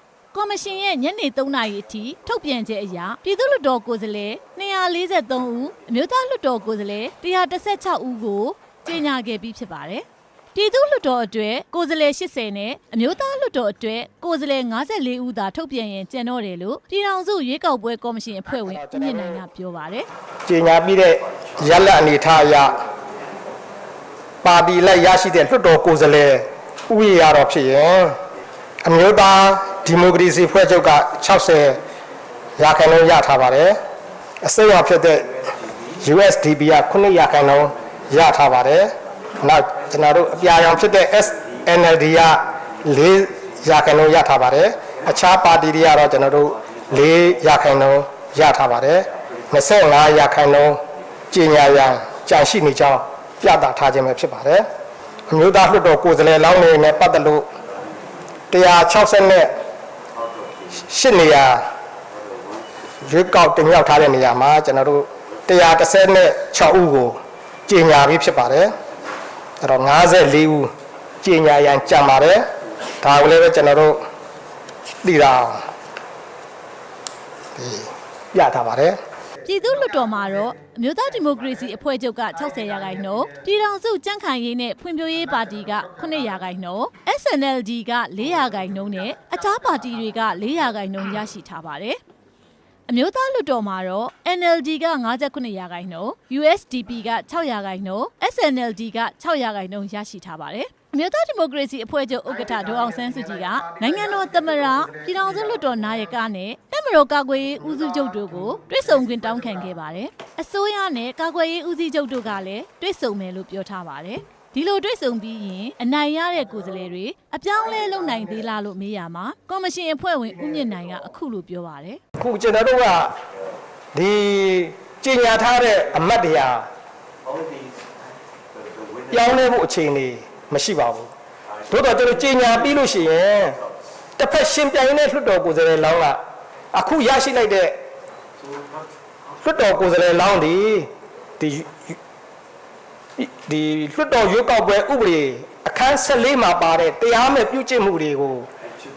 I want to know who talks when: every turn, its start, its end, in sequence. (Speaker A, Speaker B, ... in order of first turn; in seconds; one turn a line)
Speaker A: 0.3-20.1
Speaker B: 18.5-19.4
Speaker B: 20.5-22.8
Speaker B: 24.4-28.2
Speaker B: 28.8-31.8
Speaker B: 32.6-33.8
Speaker B: 34.4-35.3
Speaker B: 36.0-54.7
Speaker B: 55.3-57.5
Speaker B: 58.5-59.5
Speaker B: 60.7-61.6
Speaker B: 63.0-68.7
Speaker B: 69.6-72.5
Speaker B: 73.0-74.0
Speaker B: 75.0-75.7
Speaker B: 77.6-79.0
Speaker A: 79.4-92.0
Speaker B: 79.7-80.5
Speaker B: 81.2-81.7
Speaker B: 82.3-83.5
Speaker B: 85.2-86.4
Speaker B: 88.3-90.5
Speaker A: 92.9-122.0
Speaker B: 102.2-106.1
Speaker B: 107.5-109.7
Speaker B: 116.5-116.8
Speaker B: 117.5-118.5
Speaker B: 122.2-123.1
Speaker B: 123.9-126.7
Speaker B: 129.1-131.1
Speaker B: 131.7-133.6
Speaker B: 134.2-136.2
Speaker B: 136.7-137.8
Speaker B: 139.4-141.9
Speaker B: 143.2-148.5